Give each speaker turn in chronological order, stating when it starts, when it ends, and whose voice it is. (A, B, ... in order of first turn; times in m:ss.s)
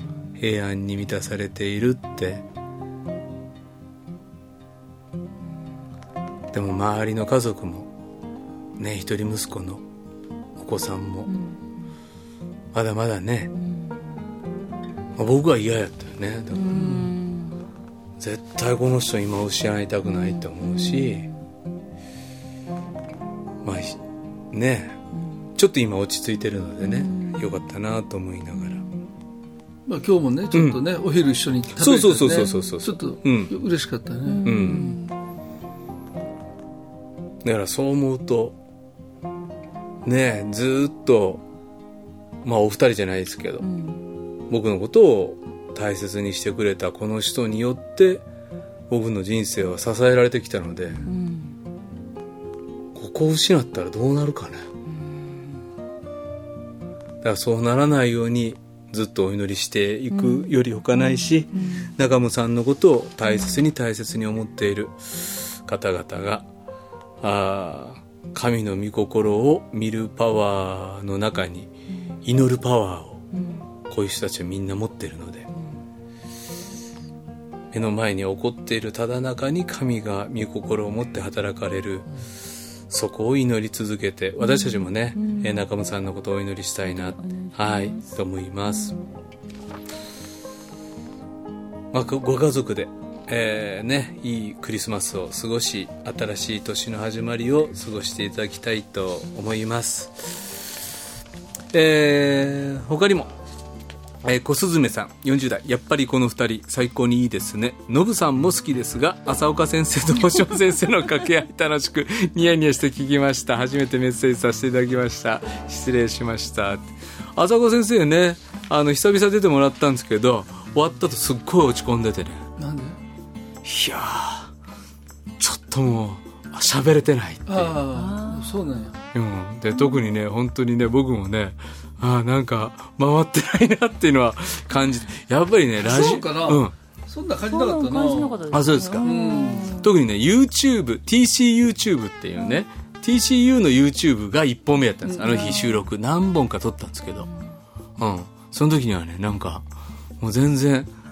0:00.4-0:02.4 A
0:06.5-0:07.9 A
0:08.8-0:09.8 A
0:10.6-0:11.3 A
0:12.7-0:13.5 A
0:15.2-0:17.1 A
0:16.6-0:17.6 B
0:16.8-0:17.1 C
0:18.2-0:21.3 A
0:20.8-0:21.1 B
0:23.6-0:24.0 A
0:24.5-0:25.0 A
0:25.6-0:28.8 A
0:26.9-0:27.4 B
0:29.8-0:34.5 C
0:30.5-0:30.8 A
0:31.8-0:33.5 A
0:34.3-0:35.0 B
0:34.4-0:35.0 A
0:37.4-0:38.6 A
0:40.0-0:41.4 A
0:42.4-0:43.7 A
0:43.6-0:44.0 B
0:44.5-0:48.2 A
0:48.9-0:51.1 A
0:51.0-0:51.6 B
0:52.9-0:54.6 A
0:57.2-1:06.4 A
1:01.6-1:01.9 B
1:07.2-1:11.7 A
1:12.2-1:13.3 A
1:13.3-1:13.6 B
1:13.9-1:15.5 A
1:17.7-1:22.1 A
1:22.9-1:29.0 A
1:25.2-1:25.5 B
1:27.2-1:28.1 B
1:31.9-1:40.8 A
1:41.7-1:43.3 A
1:44.2-2:02.4 A
2:02.6-2:03.0 C
2:03.6-2:04.5 A
2:05.4-2:07.8 A
2:07.5-2:08.9 C
2:07.9-2:08.6 B
2:09.1-2:16.7 A
2:15.8-2:18.4 C
2:17.5-2:19.9 B
2:18.5-2:19.1 A
2:19.0-2:19.7 C
2:19.8-2:27.3 A
2:25.2-2:25.7 B
2:28.0-2:29.6 A
2:30.2-2:30.9 A